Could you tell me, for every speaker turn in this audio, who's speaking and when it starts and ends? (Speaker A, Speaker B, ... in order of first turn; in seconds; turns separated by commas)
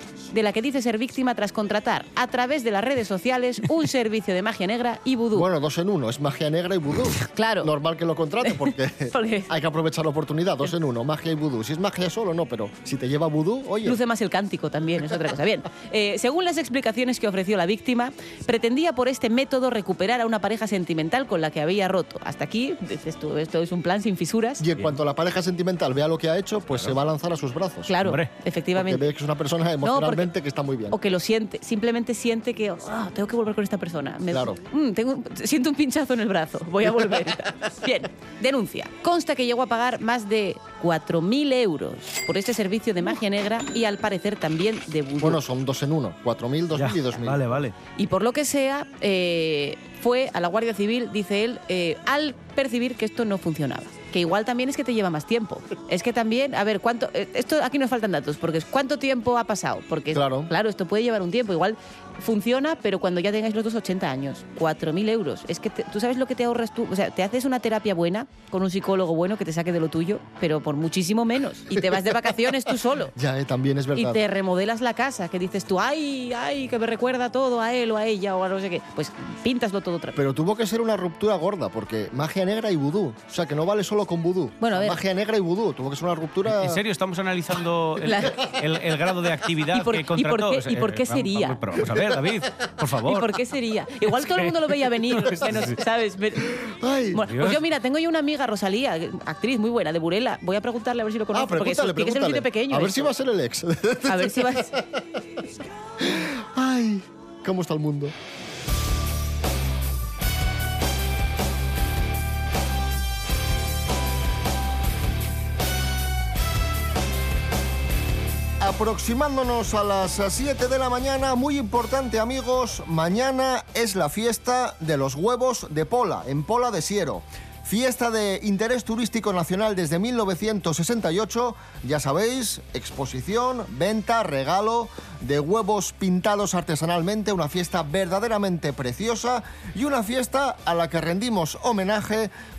Speaker A: 0.3-5.5, Speaker B: 5.3-14.0, Speaker A: 7.3-7.7, Speaker A: 8.5-9.5, Speaker A: 13.8-24.6, Speaker B: 24.6-27.9, Speaker A: 27.9-29.1, Speaker C: 28.0-28.3, Speaker B: 28.8-31.0, Speaker A: 29.8-30.3, Speaker A: 30.9-45.4, Speaker B: 34.3-34.6, Speaker B: 45.2-47.4, Speaker C: 46.8-47.8, Speaker A: 48.0-73.1, Speaker B: 60.1-60.5, Speaker B: 73.2-74.2, Speaker A: 74.0-80.2, Speaker B: 80.2-86.8, Speaker A: 84.6-85.0, Speaker C: 86.5-93.4, Speaker A: 88.0-88.4, Speaker A: 89.7-91.6, Speaker A: 93.0-103.1, Speaker C: 94.3-95.8, Speaker B: 96.6-97.2, Speaker C: 97.2-97.6, Speaker B: 101.3-105.0, Speaker A: 104.1-104.7, Speaker B: 106.0-108.2, Speaker B: 118.6-142.3